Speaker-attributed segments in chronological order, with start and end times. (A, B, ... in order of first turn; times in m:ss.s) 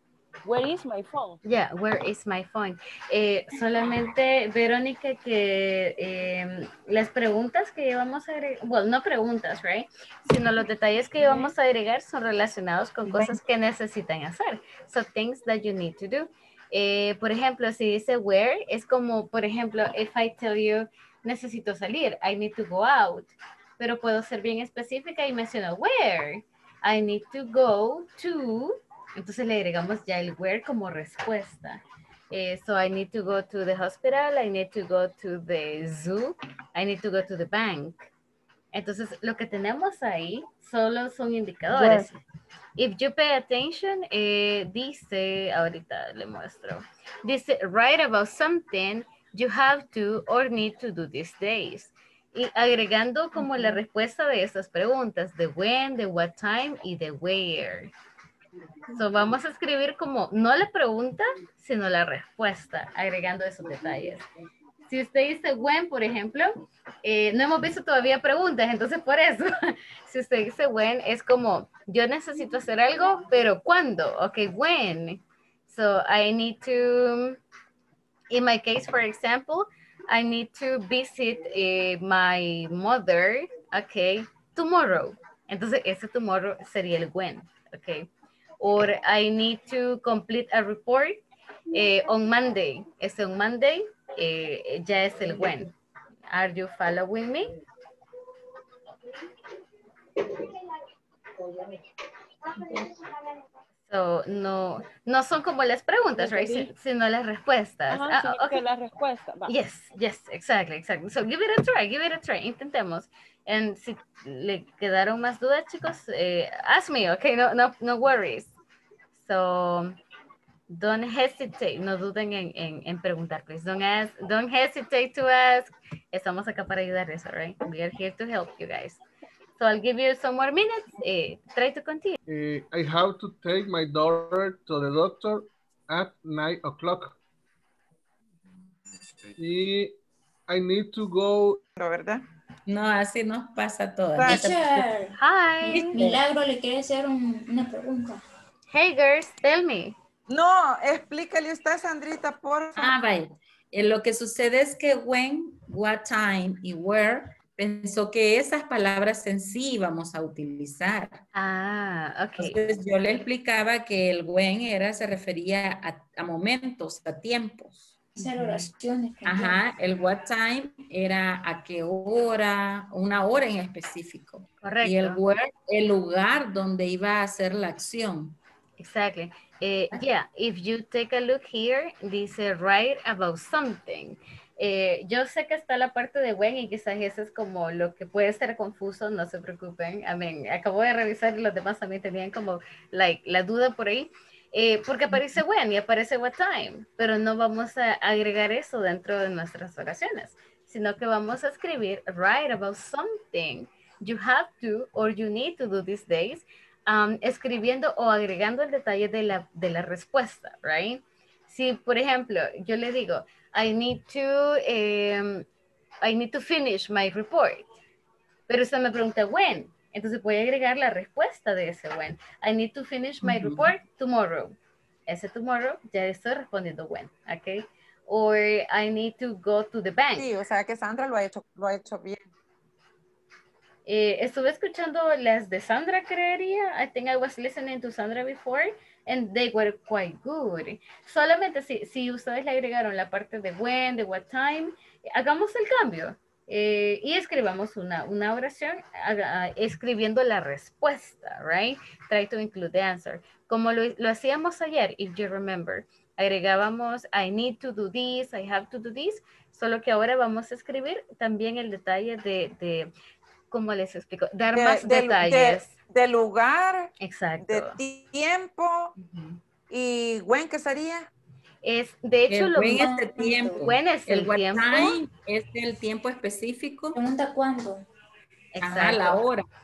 0:00.4-0:01.4 A
0:01.4-0:31.8 B
0:32.3-0:38.1 B
0:38.7-0:42.2 B
0:42.8-0:57.9 B
0:58.9-1:04.3 B
1:04.9-1:17.4 B
1:18.3-1:28.1 B
1:28.6-1:31.2 B
1:31.7-1:35.7 B
1:36.3-1:37.5 B
1:43.9-1:48.6 B
1:46.2-1:46.7 A
1:47.9-1:49.5 A
1:49.5-1:58.5 B
1:59.2-2:00.0 B
2:00.7-2:09.0 B
2:09.6-2:12.2 B
2:12.3-2:17.2 C
2:19.4-2:20.0 C
2:20.5-2:21.6 C
2:21.8-2:22.2 D
2:22.7-2:24.9 E
2:24.2-2:24.5 D
2:24.2-2:28.2 F
2:25.2-2:26.0 B
2:25.7-2:26.2 E
2:28.7-2:30.0 B
2:30.3-2:33.0 D
2:32.8-2:41.2 E
2:41.3-2:42.6 B
2:42.4-2:48.6 E
2:48.2-2:49.6 F
2:49.2-2:58.4 E
2:54.6-2:55.2 B
2:58.8-3:35.4 B
3:36.0-3:37.7 B
3:38.5-3:44.6 B
3:43.2-3:43.7 E
3:45.1-3:50.3 B
3:50.1-3:52.2 D
3:53.9-4:22.9 B
4:23.5-4:25.7 B
4:24.5-4:28.9 D
4:27.0-4:27.8 B
4:29.0-4:29.4 B
4:29.7-4:31.1 D
4:31.6-4:35.0 B
4:32.3-4:37.0 E
4:36.9-4:37.8 F
4:38.6-4:39.2 B
4:38.6-4:39.4 E